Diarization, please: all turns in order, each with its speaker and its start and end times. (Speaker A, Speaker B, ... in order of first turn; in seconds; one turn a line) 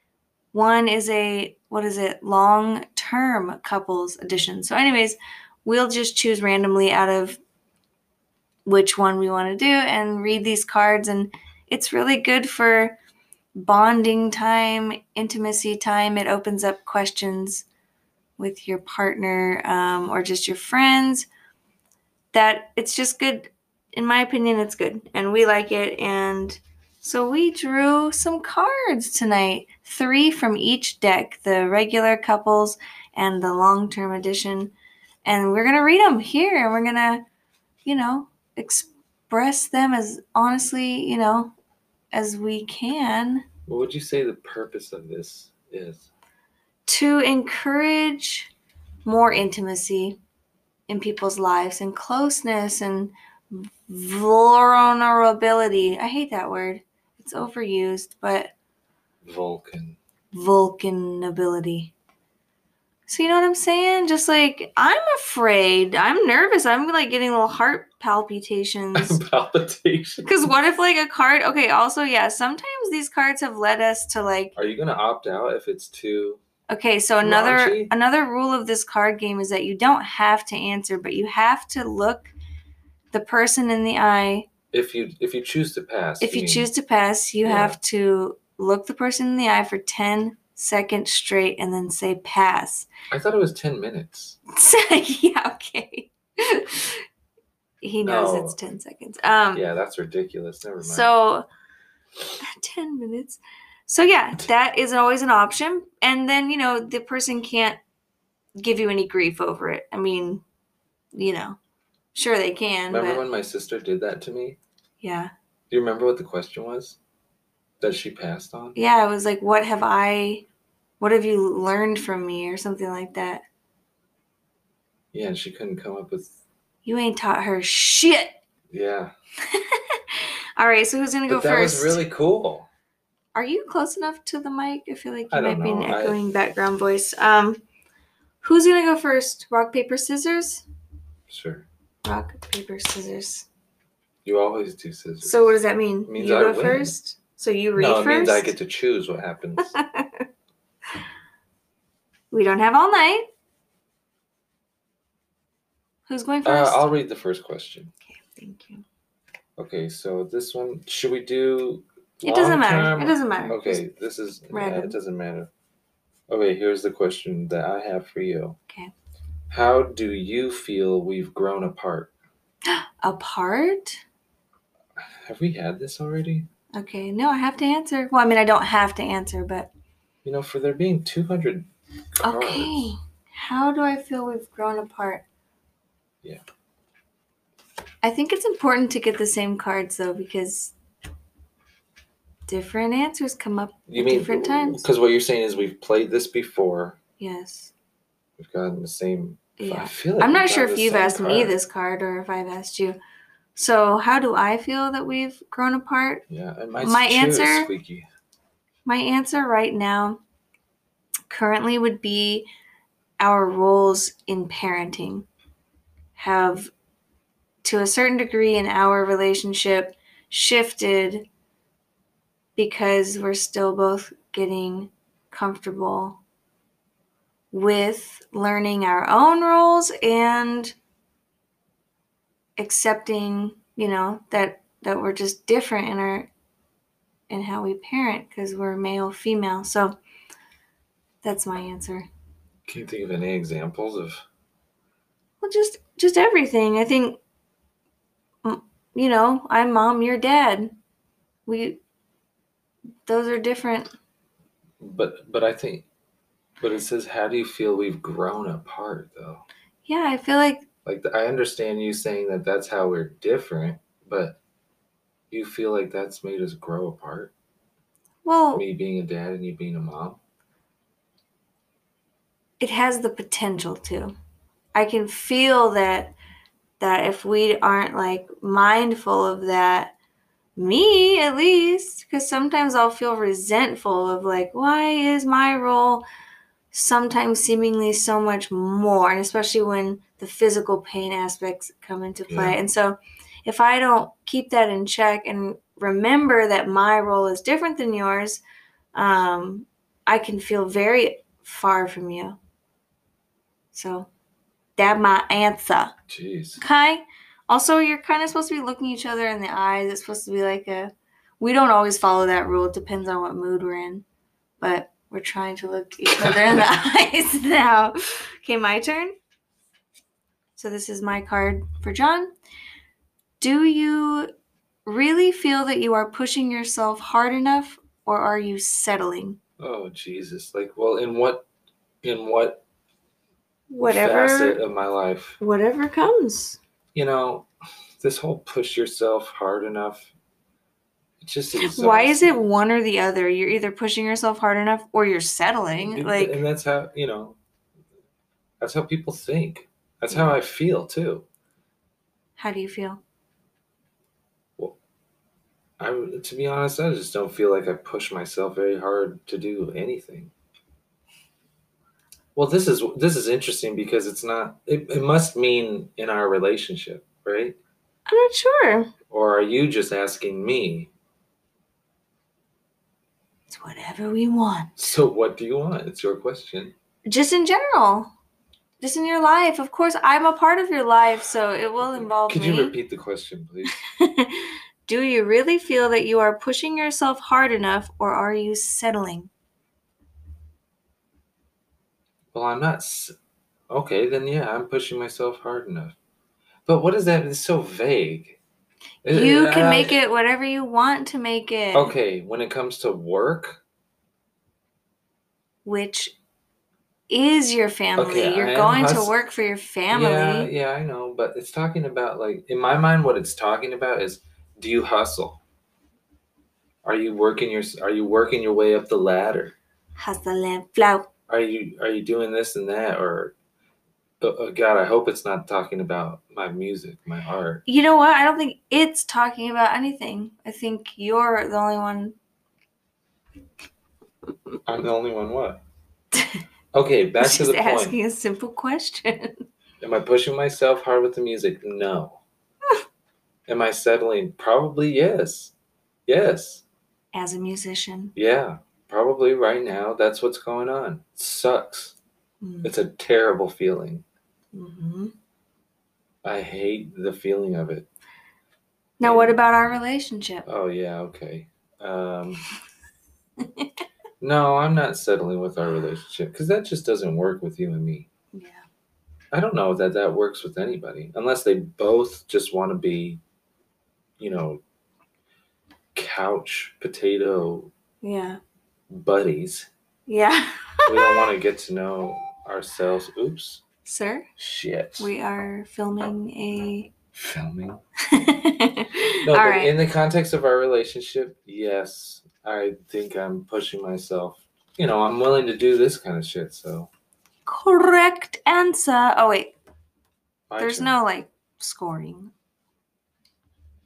Speaker A: 0.5-7.4
Speaker A: 8.7-12.9
Speaker A: 13.5-17.6
Speaker A: 18.4-21.3
Speaker A: 22.3-34.7
Speaker A: 35.2-37.2
Speaker A: 37.8-41.5
Speaker A: 42.1-43.4
Speaker B: 43.7-46.1
Speaker A: 46.9-48.5
Speaker A: 49.0-50.2
Speaker A: 50.9-58.5
Speaker B: 59.2-60.0
Speaker A: 60.3-61.9
Speaker A: 63.1-69.2
Speaker B: 68.9-70.5
Speaker A: 70.2-74.5
Speaker B: 74.5-76.4
Speaker A: 76.7-82.3
Speaker B: 77.2-77.9
Speaker A: 83.1-84.5
Speaker B: 84.7-86.7
Speaker A: 86.2-92.9
Speaker B: 87.4-87.8
Speaker B: 93.1-94.4
Speaker A: 94.5-97.0
Speaker A: 97.8-99.6
Speaker B: 98.0-98.6
Speaker B: 99.5-101.1
Speaker A: 100.8-101.4
Speaker A: 102.4-107.8
Speaker A: 108.6-110.4
Speaker A: 111.1-111.6
Speaker A: 112.1-113.2
Speaker B: 112.9-114.6
Speaker A: 115.0-115.3
Speaker B: 115.7-117.0
Speaker B: 117.8-118.8
Speaker A: 118.8-120.4
Speaker A: 121.0-123.4
Speaker B: 125.1-126.3
Speaker A: 126.8-128.4
Speaker B: 128.7-129.1
Speaker A: 129.5-132.0
Speaker B: 131.3-132.7
Speaker A: 133.3-137.6
Speaker B: 135.3-136.2
Speaker A: 138.4-140.6
Speaker B: 141.3-141.7
Speaker A: 142.0-143.5
Speaker B: 144.2-145.6
Speaker A: 145.2-148.5
Speaker B: 146.1-146.9
Speaker B: 147.8-149.7
Speaker A: 149.7-150.2
Speaker A: 152.3-153.3
Speaker A: 156.1-156.9
Speaker B: 156.4-157.9
Speaker A: 158.1-158.8
Speaker B: 159.6-165.5
Speaker A: 162.2-163.8
Speaker A: 164.5-165.0
Speaker B: 166.3-168.6
Speaker B: 169.5-172.1
Speaker A: 172.7-174.0
Speaker B: 175.0-176.5
Speaker A: 176.7-179.7
Speaker B: 180.2-182.9
Speaker A: 182.2-185.2
Speaker A: 188.0-190.7
Speaker A: 192.5-194.8
Speaker B: 193.9-197.0
Speaker A: 197.2-197.7
Speaker B: 198.4-201.6
Speaker A: 199.6-203.0
Speaker A: 203.6-206.2
Speaker B: 206.3-208.1
Speaker A: 206.8-207.7
Speaker A: 208.8-210.2
Speaker A: 211.3-212.5
Speaker A: 213.2-215.3
Speaker A: 216.2-216.7
Speaker A: 217.6-221.2
Speaker A: 222.6-226.2
Speaker A: 227.5-230.7
Speaker A: 232.6-236.3
Speaker A: 237.3-240.0
Speaker A: 241.2-242.1
Speaker B: 242.7-244.2
Speaker A: 245.4-247.2
Speaker A: 248.4-250.7
Speaker A: 251.4-251.8
Speaker A: 253.1-253.9
Speaker B: 254.8-255.8
Speaker B: 256.6-259.4
Speaker A: 259.9-260.6
Speaker B: 260.9-264.4
Speaker B: 265.3-267.3
Speaker A: 268.2-268.6
Speaker B: 268.5-270.2
Speaker A: 272.6-274.1
Speaker A: 274.7-276.1
Speaker A: 276.8-279.9
Speaker A: 280.6-286.0
Speaker A: 286.7-298.4
Speaker B: 292.3-292.6
Speaker A: 298.9-302.4
Speaker A: 303.7-304.1
Speaker A: 304.8-305.9
Speaker B: 306.1-306.6
Speaker A: 306.6-314.0
Speaker A: 314.6-319.1
Speaker B: 316.2-316.6
Speaker A: 320.6-322.3
Speaker A: 323.4-324.3
Speaker A: 324.9-329.4
Speaker B: 329.6-331.4
Speaker B: 332.0-332.6
Speaker A: 333.7-334.6
Speaker B: 333.8-335.4
Speaker A: 335.4-336.6
Speaker B: 336.9-337.5
Speaker B: 338.0-340.1
Speaker B: 341.2-342.4
Speaker A: 341.6-346.4
Speaker B: 345.8-347.4
Speaker B: 348.6-351.2
Speaker A: 352.4-353.0
Speaker B: 355.8-360.3
Speaker B: 362.3-367.6
Speaker A: 368.1-368.9
Speaker B: 369.1-370.9
Speaker A: 373.5-375.0
Speaker B: 374.8-376.7
Speaker A: 377.1-378.1
Speaker A: 378.8-382.7
Speaker B: 382.0-383.7
Speaker A: 383.8-389.3
Speaker B: 392.3-393.1
Speaker B: 393.7-395.9
Speaker B: 396.6-398.4
Speaker B: 399.0-400.0
Speaker A: 399.1-401.9
Speaker B: 401.7-403.6
Speaker A: 405.6-406.1
Speaker A: 407.1-410.5
Speaker B: 408.0-409.1
Speaker B: 409.9-415.4
Speaker B: 416.8-419.6
Speaker A: 420.0-421.1
Speaker B: 421.3-423.3
Speaker B: 424.2-427.6
Speaker A: 427.7-432.1
Speaker B: 434.6-435.6
Speaker A: 436.1-436.4
Speaker B: 436.7-438.0
Speaker A: 437.2-439.4
Speaker B: 439.8-442.2
Speaker B: 443.5-445.5
Speaker B: 446.1-446.6
Speaker A: 447.1-448.1
Speaker B: 448.1-451.9
Speaker A: 452.4-452.7
Speaker B: 452.6-454.0
Speaker A: 454.5-455.1
Speaker B: 456.2-457.9
Speaker A: 459.0-460.4
Speaker B: 459.0-459.4
Speaker B: 460.4-462.4
Speaker A: 463.4-463.7
Speaker B: 464.2-468.1
Speaker A: 468.3-468.6
Speaker B: 469.3-473.2
Speaker B: 474.2-474.6
Speaker B: 475.9-477.7
Speaker A: 478.0-478.4
Speaker B: 478.9-479.7
Speaker A: 480.1-481.3
Speaker B: 480.9-483.6
Speaker A: 483.8-484.3
Speaker B: 484.4-485.1
Speaker A: 485.0-486.9
Speaker B: 487.1-487.8
Speaker A: 488.1-489.7
Speaker B: 489.2-496.9
Speaker A: 497.4-499.5
Speaker B: 500.5-500.9
Speaker A: 500.6-502.3